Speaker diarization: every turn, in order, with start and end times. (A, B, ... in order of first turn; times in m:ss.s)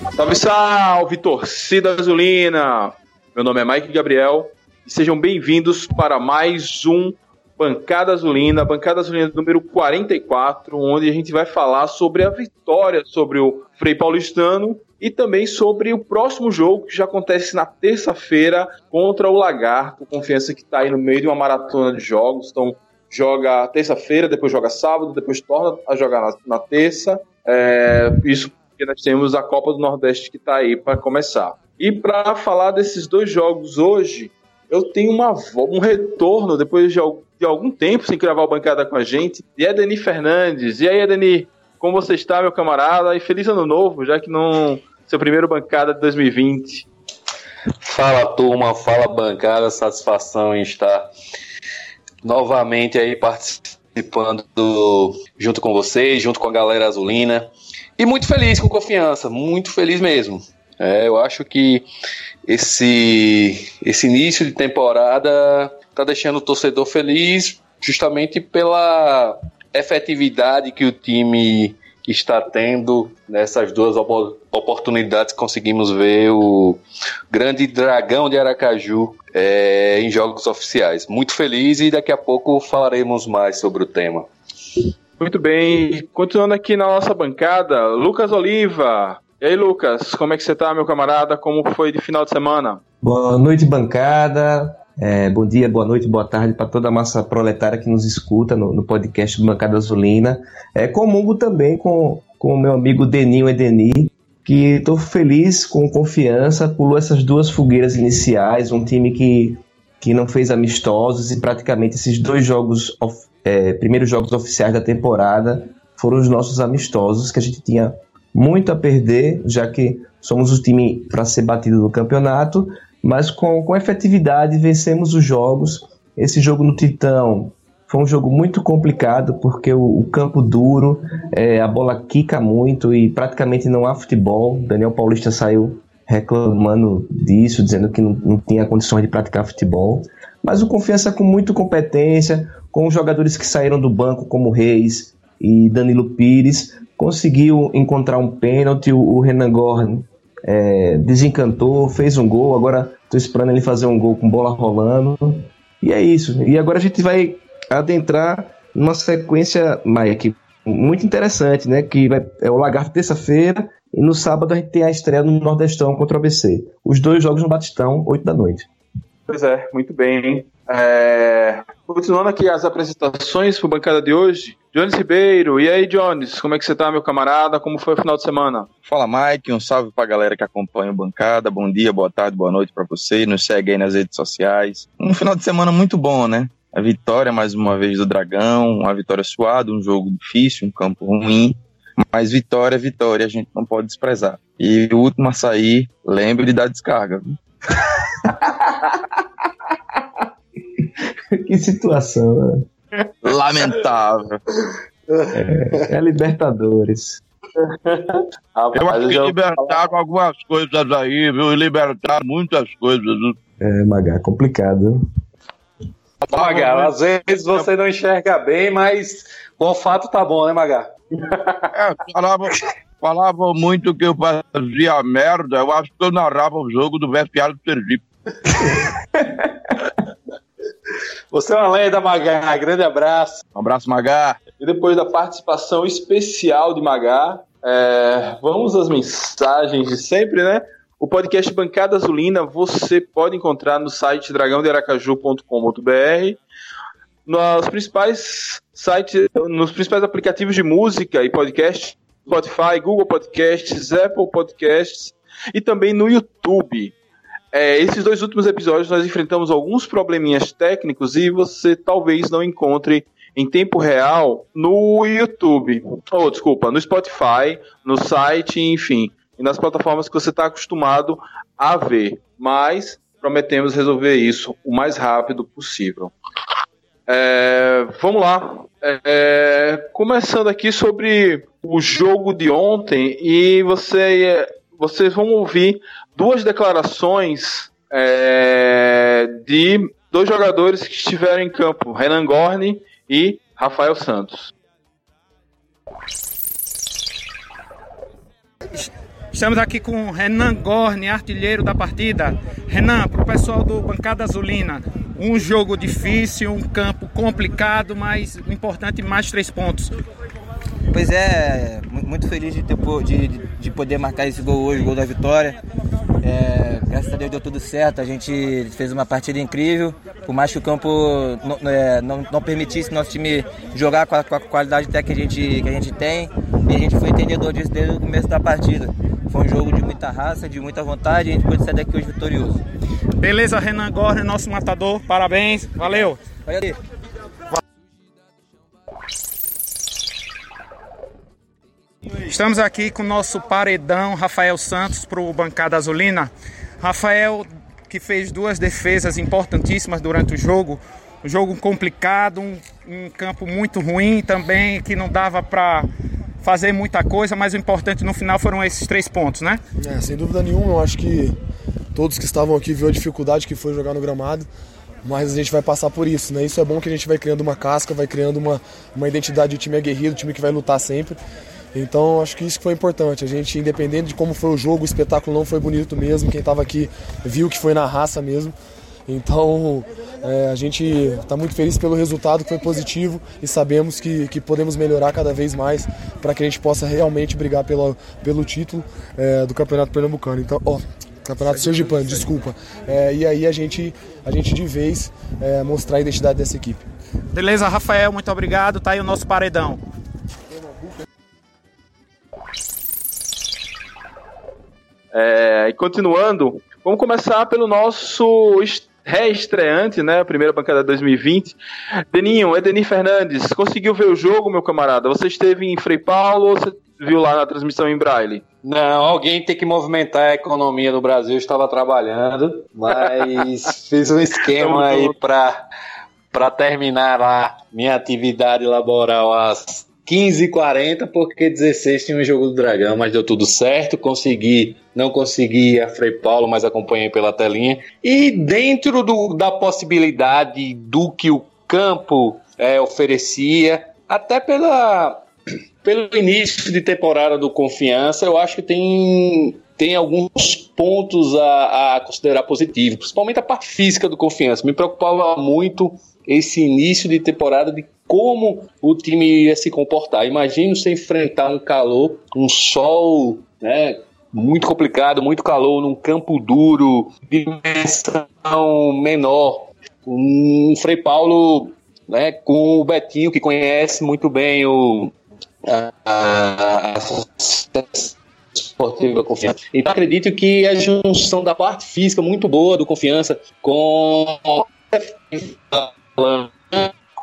0:00.2-0:46.8 A
0:47.8-0:51.1 B
0:52.2-1:01.8 B
1:02.5-1:24.3 B
1:25.2-1:32.8 A
1:33.0-2:48.7 C
2:49.3-2:58.7 A
2:58.8-3:17.4 D
3:18.2-3:19.0 C
3:20.8-3:22.6 C
3:23.2-3:24.4 D
3:25.3-3:27.2 C
3:27.6-3:29.8 A
3:28.7-3:33.4 D
3:33.6-3:35.0 C
3:36.3-3:40.9 B
3:36.3-3:36.9 D
3:41.7-3:48.0 D
3:51.3-3:53.4 B
3:53.5-3:54.4 D
3:54.6-4:06.4 A
4:07.3-4:16.9 A
4:17.5-4:36.1 A
4:37.1-4:54.5 A
4:58.7-5:09.9 E
5:10.9-5:15.6 F
5:16.2-5:32.6 F
5:33.2-5:36.2 E
5:36.4-5:36.8 F
5:42.3-5:55.9 E
5:56.4-5:59.6 E
5:59.8-6:01.4 G
6:01.9-6:04.5 G
6:05.0-6:11.2 G
6:11.7-6:18.6 G
6:19.1-6:36.8 G
6:31.5-6:32.3 E
6:37.3-6:39.8 E
6:45.1-6:51.6 A
6:52.1-6:58.4 A
6:58.6-7:05.6 B
7:04.6-7:05.1 A
7:06.3-7:25.2 B
7:25.8-7:55.1 B
7:55.6-8:06.9 B